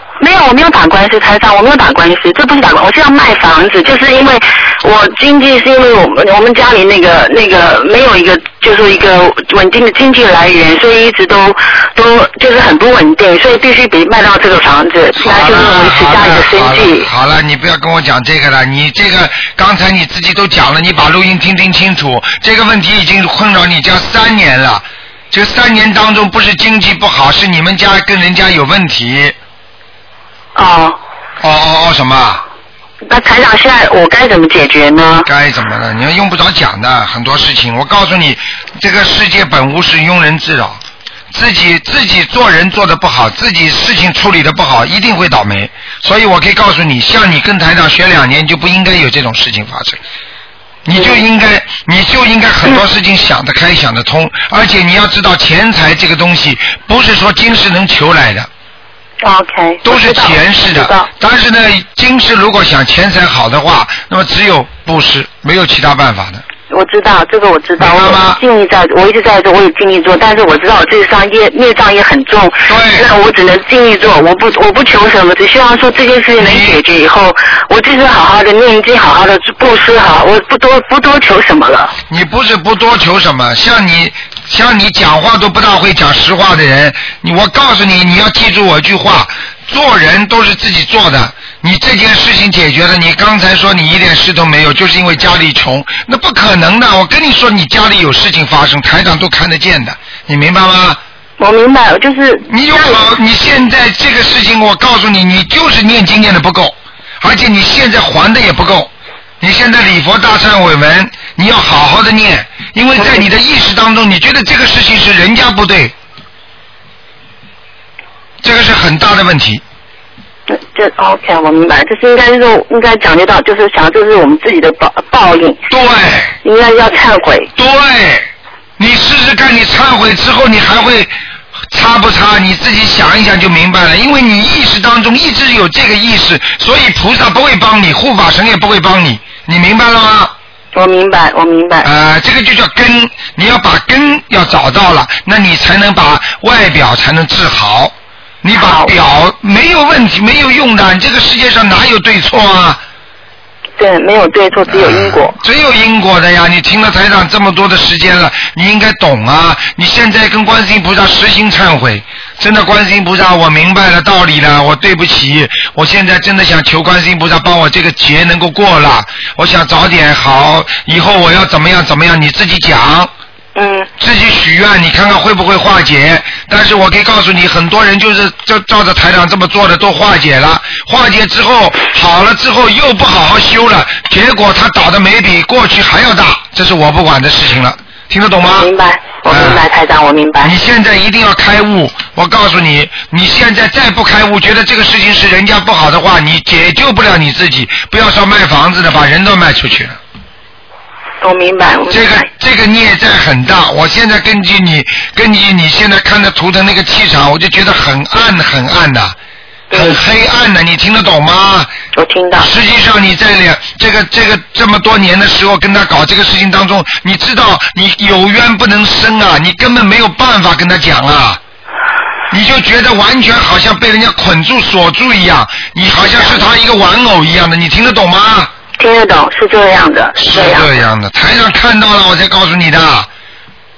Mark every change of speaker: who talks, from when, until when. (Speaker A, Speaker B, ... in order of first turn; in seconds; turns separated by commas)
Speaker A: 0.2-17.1, Speaker B: 15.2-29.3, Speaker A: 30.5-31.0, Speaker B: 31.4-32.4, Speaker A: 33.1-35.3, Speaker B: 35.2-40.8, Speaker B: 41.3-50.0, Speaker B: 50.9-58.5, Speaker A: 50.9-51.2, Speaker A: 59.2-61.1, Speaker B: 59.8-66.4, Speaker A: 66.7-81.9, Speaker B: 67.8-68.4, Speaker B: 72.7-73.1, Speaker B: 76.4-76.8, Speaker B: 82.1-101.0, Speaker A: 101.4-103.0, Speaker B: 102.5-108.9, Speaker B: 109.4-115.9, Speaker A: 113.0-113.2, Speaker B: 118.4-119.6, Speaker A: 120.5-125.6, Speaker B: 125.7-126.3, Speaker A: 126.4-127.5, Speaker B: 127.5-128.3, Speaker B: 128.8-131.1, Speaker B: 131.7-140.3, Speaker A: 140.7-141.9, Speaker B: 141.8-152.8, Speaker A: 148.6-148.9, Speaker A: 153.8-155.3, Speaker B: 154.7-173.1, Speaker A: 173.6-173.9, Speaker B: 174.0-188.7, Speaker A: 188.6-190.5, Speaker B: 189.2-189.6, Speaker B: 190.4-200.0, Speaker A: 201.2-202.3, Speaker B: 201.9-209.1, Speaker A: 209.7-210.0, Speaker B: 209.7-211.7, Speaker A: 211.9-212.5, Speaker B: 212.4-221.4, Speaker B: 222.3-228.5, Speaker A: 226.2-226.4, Speaker A: 228.8-230.7, Speaker B: 230.2-233.1